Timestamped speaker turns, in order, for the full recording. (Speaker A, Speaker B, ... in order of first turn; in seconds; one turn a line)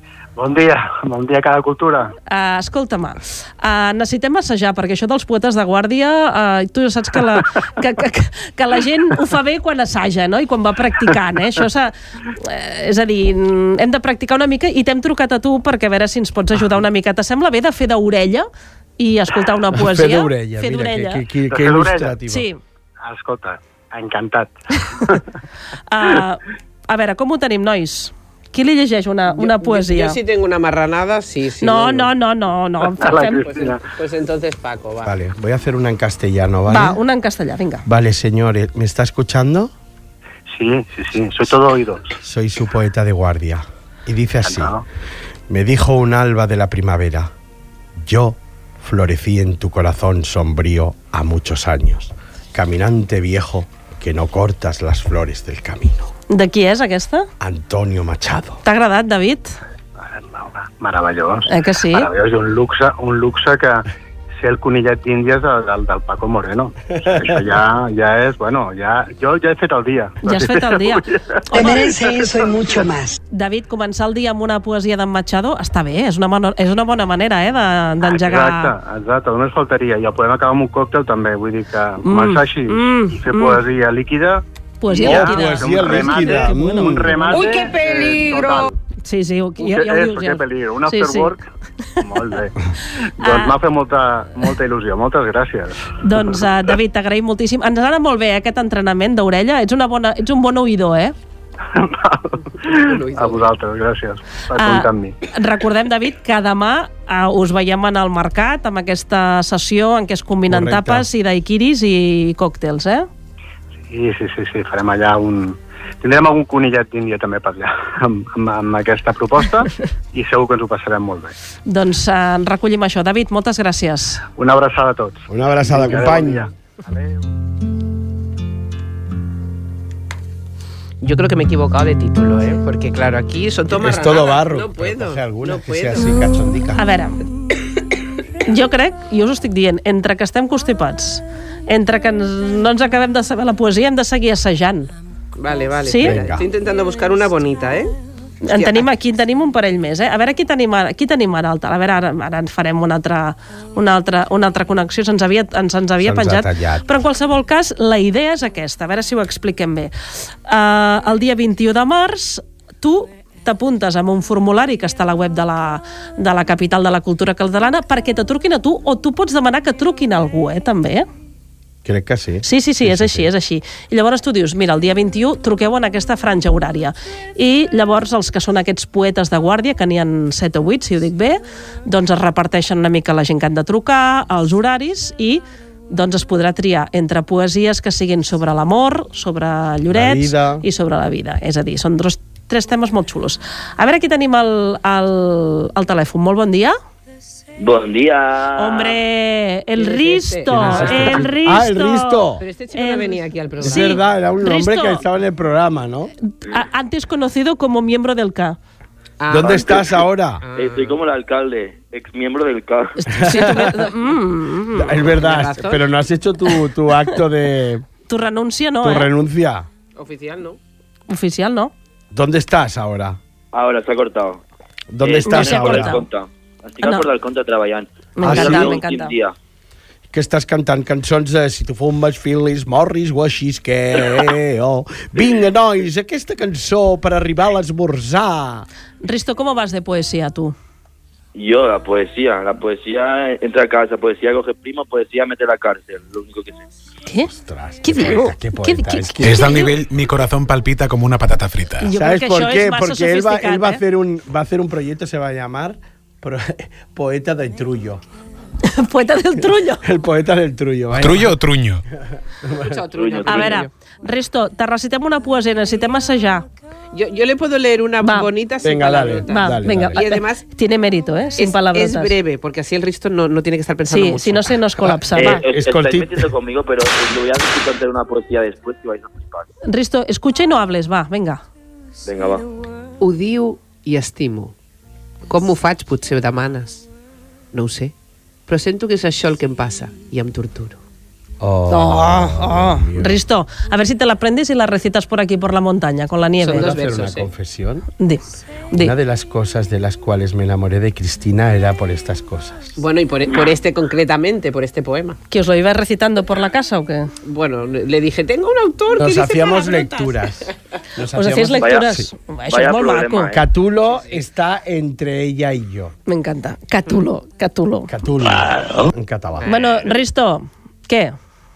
Speaker A: 0.4-2.1
Speaker B: 2.3-18.5
Speaker B: 19.0-21.2
Speaker C: 19.7-22.5
Speaker A: 21.5-22.1
Speaker B: 22.3-22.6
Speaker A: 23.0-25.2
Speaker B: 25.9-30.2
Speaker D: 29.3-32.1
Speaker B: 31.6-33.5
Speaker A: 33.0-33.8
Speaker D: 33.3-35.1
Speaker C: 35.0-37.0
Speaker B: 36.7-37.9
Speaker C: 37.9-39.7
Speaker A: 40.5-42.1
Speaker C: 42.2-44.8
Speaker A: 44.5-44.8
Speaker C: 45.5-47.3
Speaker C: 48.0-56.1
Speaker B: 56.3-57.3
Speaker C: 57.4-58.6
Speaker B: 58.6-59.6
Speaker A: 60.0-63.9
Speaker B: 61.5-62.1
Speaker A: 64.4-72.7
Speaker C: 67.0-67.4
Speaker B: 70.2-71.8
Speaker E: 71.5-73.2
Speaker B: 73.3-78.7
Speaker A: 78.1-84.4
Speaker B: 82.0-83.6
Speaker B: 84.8-87.2
Speaker A: 84.9-88.7
Speaker C: 85.0-87.3
Speaker E: 87.3-88.6
Speaker B: 89.0-91.3
Speaker A: 89.6-91.4
Speaker A: 92.0-92.6
Speaker A: 93.2-95.9
Speaker B: 93.2-93.6
Speaker B: 96.0-101.1
Speaker A: 101.7-105.2
Speaker D: 102.7-103.5
Speaker B: 104.5-113.1
Speaker C: 110.5-111.1
Speaker A: 113.9-121.3
Speaker B: 121.7-124.2
Speaker A: 124.4-127.2
Speaker C: 125.3-126.4
Speaker D: 131.0-136.2
Speaker C: 133.7-136.8
Speaker B: 136.8-137.2
Speaker B: 138.5-144.9
Speaker D: 145.4-147.9
Speaker B: 145.8-146.2
Speaker C: 146.0-146.5
Speaker B: 148.4-159.9
Speaker D: 148.5-148.9
Speaker C: 156.0-156.9
Speaker B: 160.4-171.1
Speaker C: 171.8-173.3
Speaker B: 172.4-196.8
Speaker C: 189.9-190.7
Speaker F: 197.6-199.0
Speaker B: 198.6-205.0
Speaker D: 199.8-201.3
Speaker C: 200.6-202.4
Speaker D: 202.4-204.0
Speaker C: 203.6-206.1
Speaker B: 206.2-208.6
Speaker D: 209.2-209.9
Speaker C: 209.3-210.4
Speaker F: 209.4-210.0
Speaker D: 210.4-211.0
Speaker F: 210.6-213.2
Speaker B: 213.0-215.1
Speaker C: 213.1-213.8
Speaker C: 214.8-217.8
Speaker D: 215.1-215.9
Speaker B: 218.1-219.1
Speaker C: 218.8-219.7
Speaker D: 219.9-220.6
Speaker B: 221.1-221.7
Speaker C: 222.1-223.2
Speaker F: 223.5-224.4
Speaker C: 224.9-226.0
Speaker F: 225.0-229.3
Speaker B: 225.2-226.1
Speaker B: 226.8-227.1
Speaker B: 228.2-229.1
Speaker C: 228.2-228.8
Speaker C: 230.1-238.7
Speaker B: 239.0-240.6
Speaker F: 241.3-246.7
Speaker C: 247.3-249.7
Speaker B: 247.8-249.7
Speaker G: 249.2-251.9
Speaker B: 251.8-253.8
Speaker C: 251.9-258.0
Speaker B: 258.6-259.8
Speaker C: 259.8-261.4
Speaker G: 261.0-261.8
Speaker C: 262.4-262.8
Speaker D: 262.6-263.7
Speaker F: 263.0-263.6
Speaker B: 263.3-266.4
Speaker D: 266.9-270.4
Speaker B: 268.0-268.3
Speaker C: 268.6-270.0
Speaker B: 269.3-272.1
Speaker D: 271.4-274.6
Speaker B: 273.9-275.4
Speaker F: 275.2-279.5
Speaker C: 275.2-276.3
Speaker B: 279.7-281.4
Speaker F: 282.1-282.4
Speaker D: 283.0-284.5
Speaker D: 285.3-286.9
Speaker D: 287.5-287.9
Speaker D: 288.5-290.8
Speaker C: 291.4-293.2
Speaker B: 291.7-296.8
Speaker D: 296.4-297.3
Speaker C: 296.5-297.9
Speaker B: 298.0-298.9
Speaker C: 298.8-302.8
Speaker D: 302.8-305.2
Speaker B: 305.3-307.1
Speaker D: 307.2-310.5
Speaker C: 308.9-312.1
Speaker B: 311.1-313.3
Speaker F: 311.6-312.0
Speaker F: 312.5-313.5
Speaker C: 313.3-315.9
Speaker B: 316.1-317.9
Speaker C: 317.9-319.5
Speaker D: 319.4-319.8
Speaker B: 319.5-321.1